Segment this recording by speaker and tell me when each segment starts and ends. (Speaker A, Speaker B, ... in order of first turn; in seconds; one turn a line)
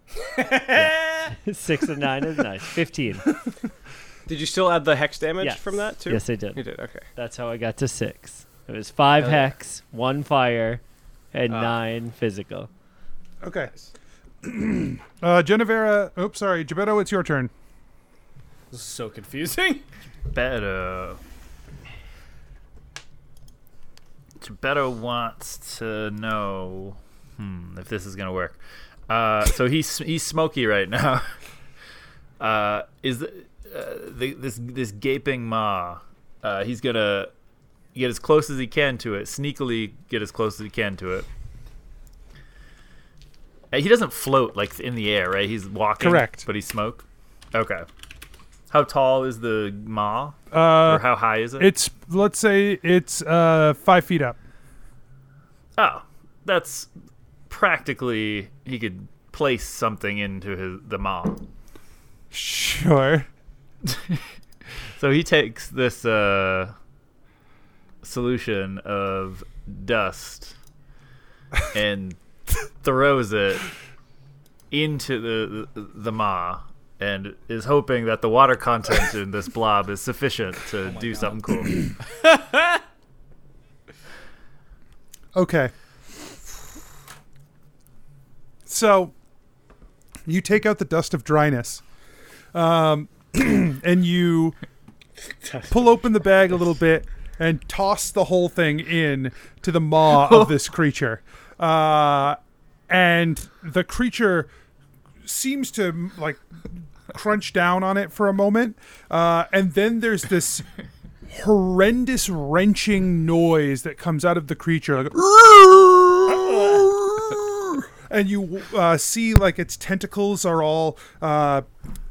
Speaker A: 0.2-1.3
Speaker B: 0.7-3.3
Speaker C: 4.3-7.1
Speaker B: 5.4-6.6
Speaker B: 7.2-10.8
Speaker C: 9.2-9.5
Speaker B: 11.3-12.7
Speaker C: 11.5-11.8
Speaker D: 13.4-13.7
Speaker D: 14.4-17.5
Speaker A: 18.7-19.8
Speaker E: 20.3-21.2
Speaker E: 24.4-28.6
Speaker E: 29.1-31.3
Speaker E: 32.4-37.3
Speaker E: 37.9-41.3
Speaker E: 43.7-47.9
Speaker D: 46.0-46.4
Speaker E: 48.7-51.7
Speaker D: 50.5-51.1
Speaker D: 51.6-54.4
Speaker E: 55.8-56.9
Speaker E: 57.5-61.5
Speaker D: 62.3-63.3
Speaker E: 63.9-64.2
Speaker E: 65.0-66.7
Speaker E: 68.0-70.5
Speaker E: 71.7-72.2
Speaker E: 72.8-73.7
Speaker E: 74.7-81.9
Speaker A: 80.8-82.8
Speaker D: 85.3-85.7
Speaker D: 88.7-89.1
Speaker D: 90.2-91.8
Speaker D: 92.5-94.5
Speaker C: 95.4-96.1
Speaker D: 95.7-104.5
Speaker D: 105.2-106.4
Speaker D: 107.1-110.6
Speaker D: 111.3-121.7